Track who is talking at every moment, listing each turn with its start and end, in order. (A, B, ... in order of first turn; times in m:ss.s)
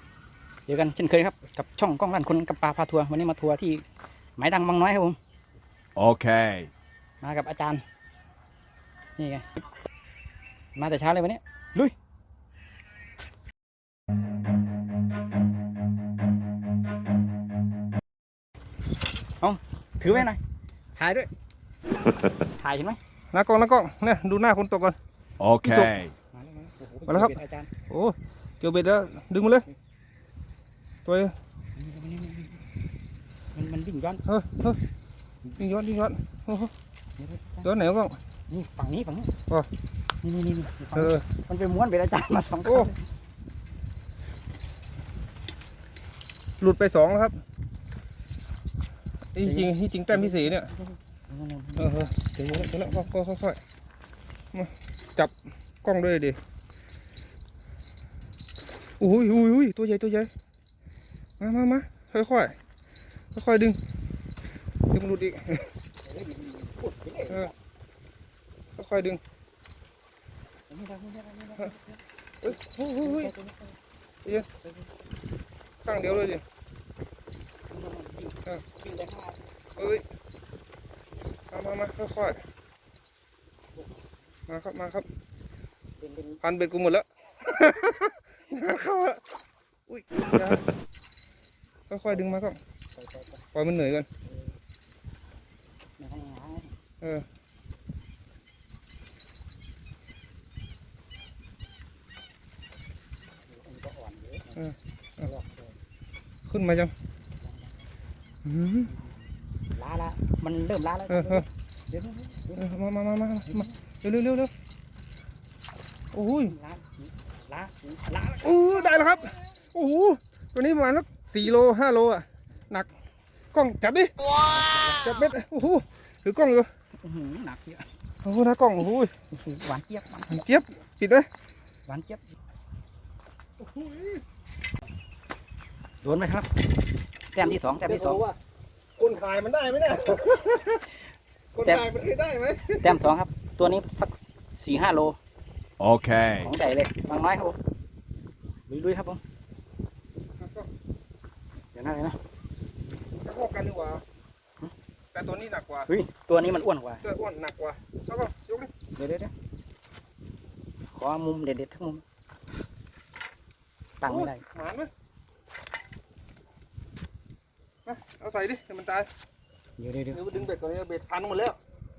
0:00.7-0:03.8 A
0:04.4-0:05.2 A
0:06.0-0:06.7 B
0:07.2-0:07.8 A
0:09.2-0:09.6 A
0:10.8-0:11.9 A
0:19.4-0:20.4 A
0:21.0-0:21.3 A
0:22.6-0:23.0 A
0:23.3-0:25.0 C
0:25.4-0:26.1 B
0:25.6-0:26.0 C
0:26.4-0:27.7 A
0:27.1-0:27.4 C
0:27.9-0:29.7 C
0:31.1-0:31.4 C
0:31.8-0:32.6 A
0:33.5-0:34.2 A
0:34.3-0:34.8 C
0:35.6-0:36.7 C
0:37.2-0:37.7 A
0:37.6-0:38.2 C
0:38.5-0:39.3 A
0:40.2-0:43.0 A
0:41.0-0:41.2 C
0:46.6-0:47.4 C
0:49.4-0:50.7 C
0:49.4-0:53.0 A
0:51.8-0:53.6 C
0:54.5-0:55.3 C
0:55.8-0:56.4 C
0:59.0-1:00.3 C
1:01.4-1:02.6 C
1:03.4-1:03.8 C
1:04.9-1:05.7 C
1:06.0-1:07.5 A
1:08.8-1:09.2 C
1:10.7-1:12.0 A
1:12.4-1:13.3 C
1:13.0-1:13.8 A
1:15.8-1:16.4 C
1:17.7-1:19.4 A
1:19.8-1:20.0 C
1:21.5-1:22.4 C
1:24.5-1:25.0 C
1:26.0-1:26.4 A
1:26.4-1:29.2 C
1:29.9-1:30.6 C
1:31.9-1:32.6 C
1:32.1-1:32.4 A
1:33.0-1:33.4 A
1:33.6-1:34.1 C
1:36.0-1:36.7 A
1:43.5-1:44.6 A
1:45.2-1:45.7 A
1:46.5-1:46.9 C
1:48.4-1:48.9 C
1:49.7-1:52.7 A
1:51.1-1:51.5 C
1:52.6-1:54.5 C
1:56.1-1:56.5 C
1:56.5-1:59.1 A
1:58.4-2:02.9 C
2:03.5-2:04.1 C
2:04.5-2:05.0 A
2:04.9-2:06.7 C
2:07.0-2:07.8 A
2:08.2-2:09.1 C
2:09.3-2:10.4 A
2:10.3-2:11.3 C
2:11.9-2:12.2 A
2:13.6-2:14.2 C
2:16.0-2:16.5 A
2:17.3-2:18.2 A
2:17.8-2:18.4 C
2:19.0-2:20.9 C
2:21.6-2:23.0 C
2:22.8-2:25.2 A
2:25.8-2:26.5 B
2:26.4-2:27.6 A
2:28.7-2:29.2 A
2:30.4-2:30.7 C
2:31.7-2:32.2 A
2:33.2-2:34.0 C
2:35.1-2:35.9 C
2:35.9-2:37.0 A
2:37.0-2:38.7 C
2:39.0-2:39.3 A
2:40.9-2:42.0 A
2:44.0-2:44.4 A
2:44.0-2:44.9 C
2:47.9-2:49.1 C
2:49.8-2:50.5 A
2:50.1-2:51.6 C